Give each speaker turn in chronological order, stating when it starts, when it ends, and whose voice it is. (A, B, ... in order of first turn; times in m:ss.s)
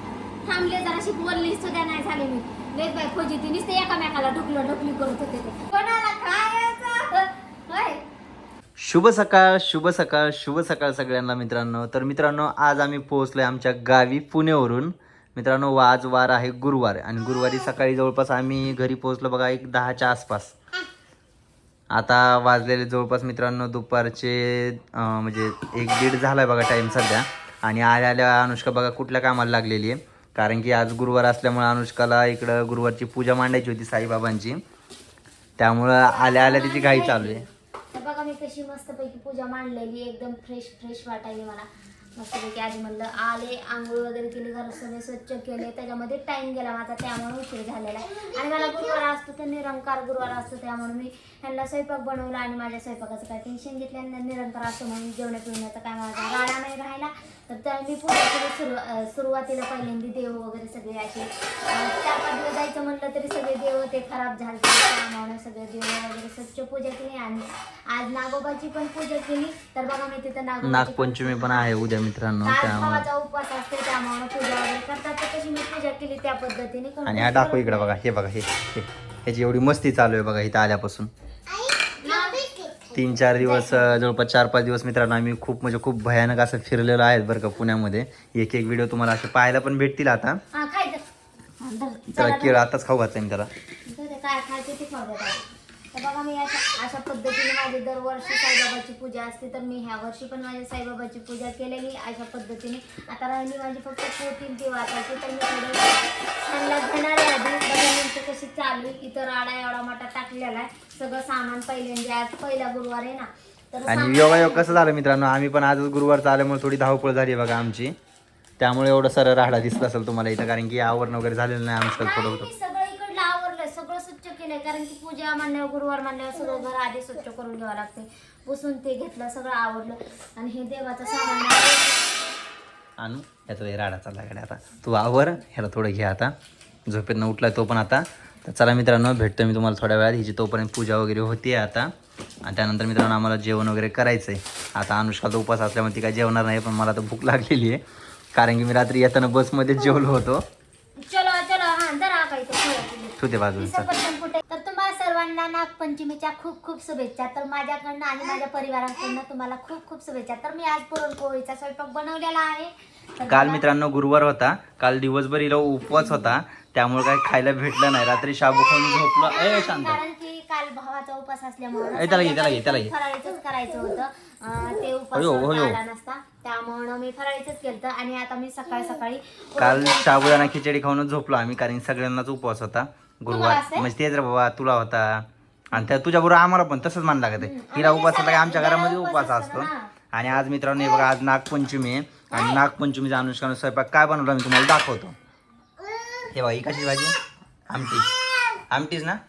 0:00.4-0:08.0 A
0:08.8-0:20.5 B
0:21.9-0:34.6 B
0:35.6-0:37.4 B
0:36.1-1:11.7 A
1:10.6-1:13.0 B
1:12.4-1:18.0 A
1:17.0-1:21.1 B
1:22.0-1:24.0 A
1:22.9-1:30.4 B
1:30.5-1:31.0 A
1:31.6-1:32.6 A
1:32.2-1:33.5 B
1:33.8-1:54.8 A
1:53.9-1:58.0 B
1:58.6-2:02.5 B
2:01.9-2:12.1 A
2:13.0-2:16.3 B
2:16.9-2:21.9 B
2:22.4-2:27.8 B
2:28.3-2:30.4 B
2:31.0-2:43.7 A
2:33.2-2:33.9 B
2:43.3-2:50.0 B
2:49.2-3:00.5 A
2:51.9-2:52.9 B
2:55.1-2:55.8 B
2:59.6-3:15.1 B
3:03.3-3:03.9 A
3:07.4-3:09.9 A
3:12.3-3:12.6 A
3:16.3-3:17.2 B
3:17.7-3:18.2 B
3:18.7-3:19.2 B